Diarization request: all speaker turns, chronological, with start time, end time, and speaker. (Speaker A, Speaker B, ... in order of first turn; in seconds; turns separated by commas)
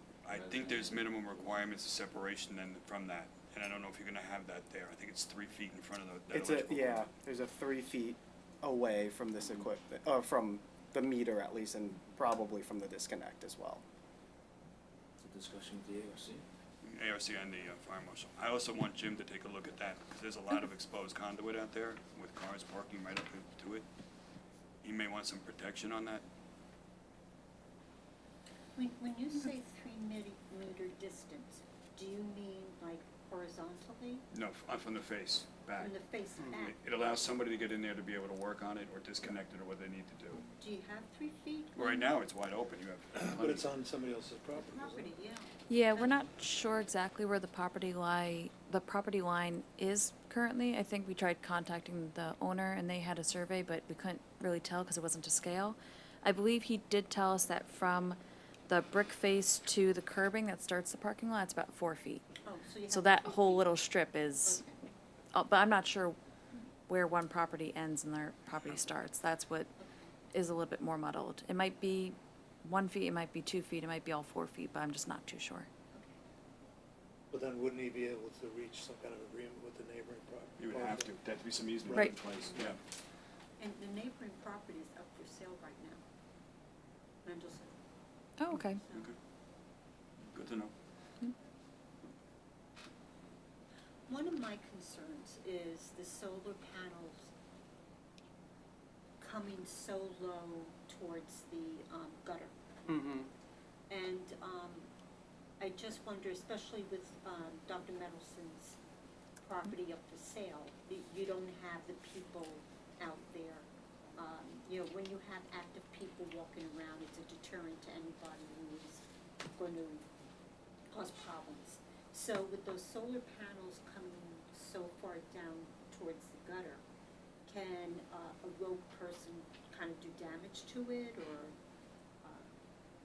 Speaker A: 0.2-7.1, Speaker B: 0.3-1.6, Speaker C: 6.3-13.8, Speaker B: 15.2-16.4, Speaker A: 16.8-23.9, Speaker A: 24.8-26.2, Speaker D: 28.7-34.2, Speaker A: 34.3-36.0, Speaker D: 35.8-36.7, Speaker C: 36.4-36.7, Speaker A: 36.5-40.5, Speaker D: 40.6-42.1, Speaker A: 41.7-43.7, Speaker E: 43.1-45.2, Speaker D: 44.5-46.1, Speaker F: 45.7-62.2, Speaker D: 62.4-63.7, Speaker F: 62.9-64.6, Speaker D: 64.4-64.8, Speaker F: 65.3-66.2, Speaker F: 66.9-69.7, Speaker D: 69.8-70.1, Speaker F: 70.3-75.7, Speaker D: 75.9-76.2, Speaker E: 77.3-81.2, Speaker A: 80.6-82.8, Speaker E: 81.8-82.7, Speaker D: 83.6-86.0, Speaker D: 87.2-87.7, Speaker F: 88.4-88.8, Speaker A: 88.9-89.2, Speaker A: 90.3-90.7, Speaker D: 94.1-97.3, Speaker D: 99.2-102.5, Speaker C: 102.9-103.3, Speaker D: 103.9-104.9, Speaker D: 105.6-108.8, Speaker D: 109.4-119.0, Speaker D: 119.5-120.0, Speaker D: 120.9-126.8, Speaker D: 127.5-131.6, Speaker D: 132.2-132.5